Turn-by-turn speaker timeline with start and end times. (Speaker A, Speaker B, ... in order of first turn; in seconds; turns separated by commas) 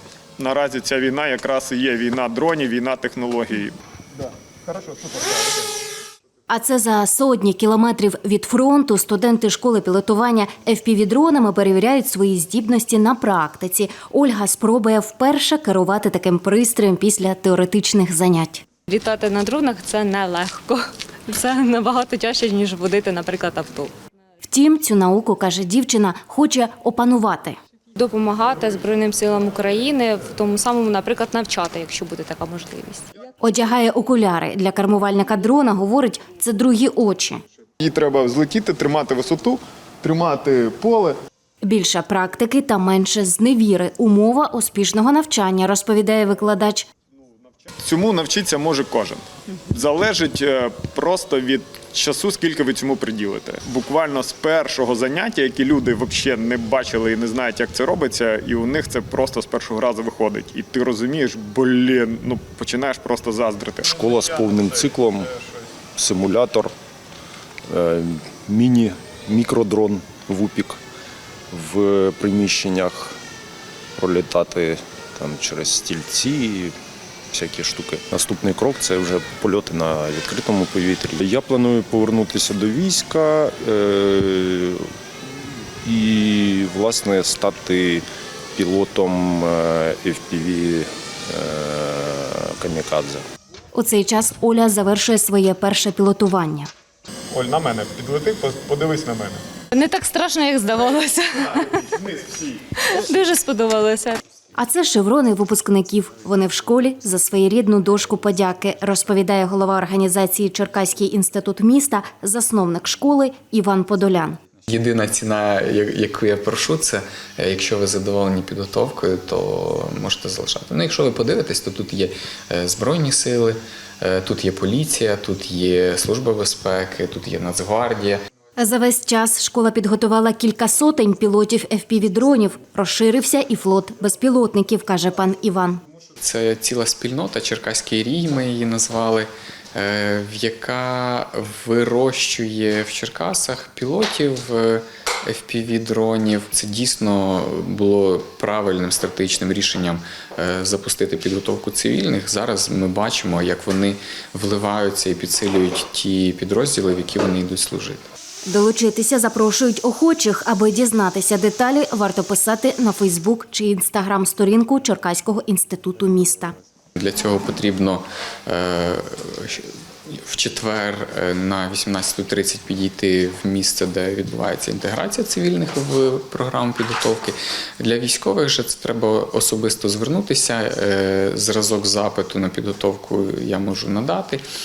Speaker A: 0.4-5.6, Speaker B: 6.5-18.6, Speaker C: 18.9-23.9, Speaker B: 24.4-27.6, Speaker C: 27.9-33.0, Speaker B: 33.4-37.4, Speaker A: 37.8-41.1, Speaker B: 41.6-46.9, Speaker A: 47.8-64.0, Speaker D: 63.9-65.3, Speaker D: 66.0-66.7, Speaker D: 67.7-70.8, Speaker D: 71.5-73.2, Speaker D: 74.0-76.7, Speaker D: 77.3-84.9, Speaker D: 85.8-88.0, Speaker D: 88.5-93.2, Speaker B: 93.7-96.7, Speaker A: 97.3-99.4, Speaker C: 99.7-101.9, Speaker C: 102.6-104.2, Speaker B: 104.5-114.4, Speaker E: 114.7-128.2, Speaker B: 128.6-135.8, Speaker E: 136.2-158.0, Speaker B: 158.5-166.5, Speaker E: 166.9-184.4